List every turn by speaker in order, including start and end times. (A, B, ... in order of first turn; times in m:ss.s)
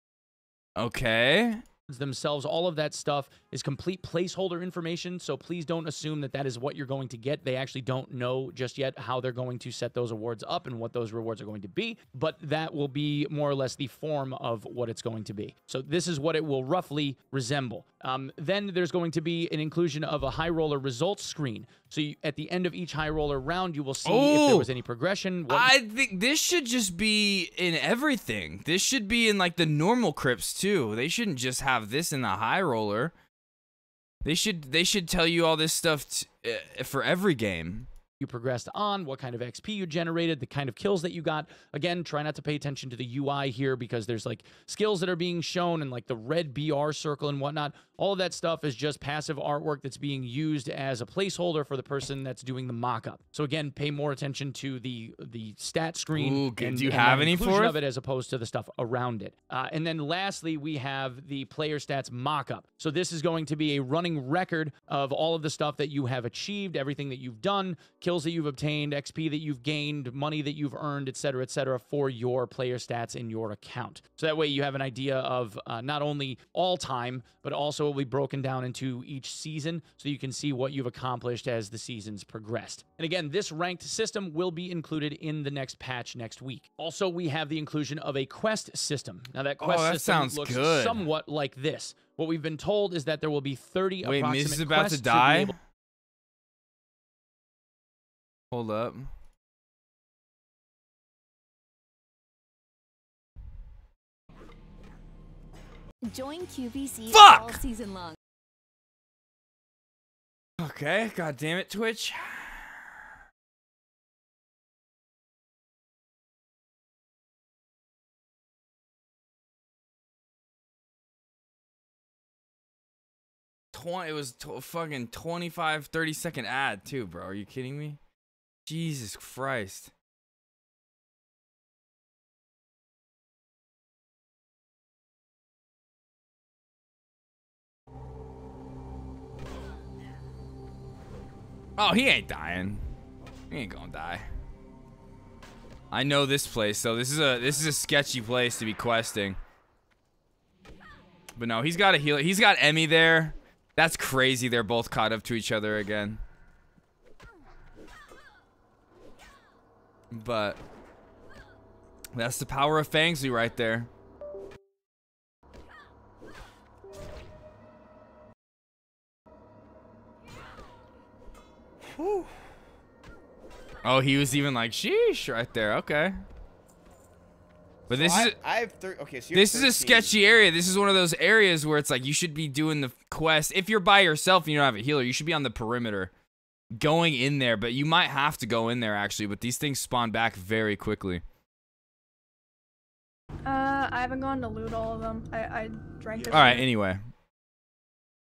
0:00.8-0:01.6 A
0:01.9-0:25.7 B
0:24.0-0:24.7 A
0:25.5-0:33.1 A
0:34.2-0:37.9 A
0:38.2-1:35.5 B
0:56.1-0:57.8 A
1:29.6-1:31.1 A
1:34.0-1:35.5 A
1:38.5-1:39.1 A
1:46.1-1:48.2 C
1:47.1-1:47.6 A
1:50.6-1:53.0 A
2:03.7-2:08.0 A
2:08.6-2:09.9 A
2:21.8-2:22.8 A
2:23.5-2:24.2 A
2:25.9-2:29.4 A
2:31.4-2:36.2 A
2:40.1-2:40.6 A
2:42.1-2:43.9 A
2:52.0-2:52.2 D
2:53.8-2:56.1 A
2:57.9-2:58.4 A
2:57.9-3:00.1 D
2:59.3-3:06.1 A
3:06.8-3:11.2 A
3:13.4-3:16.7 E
3:16.3-3:17.1 A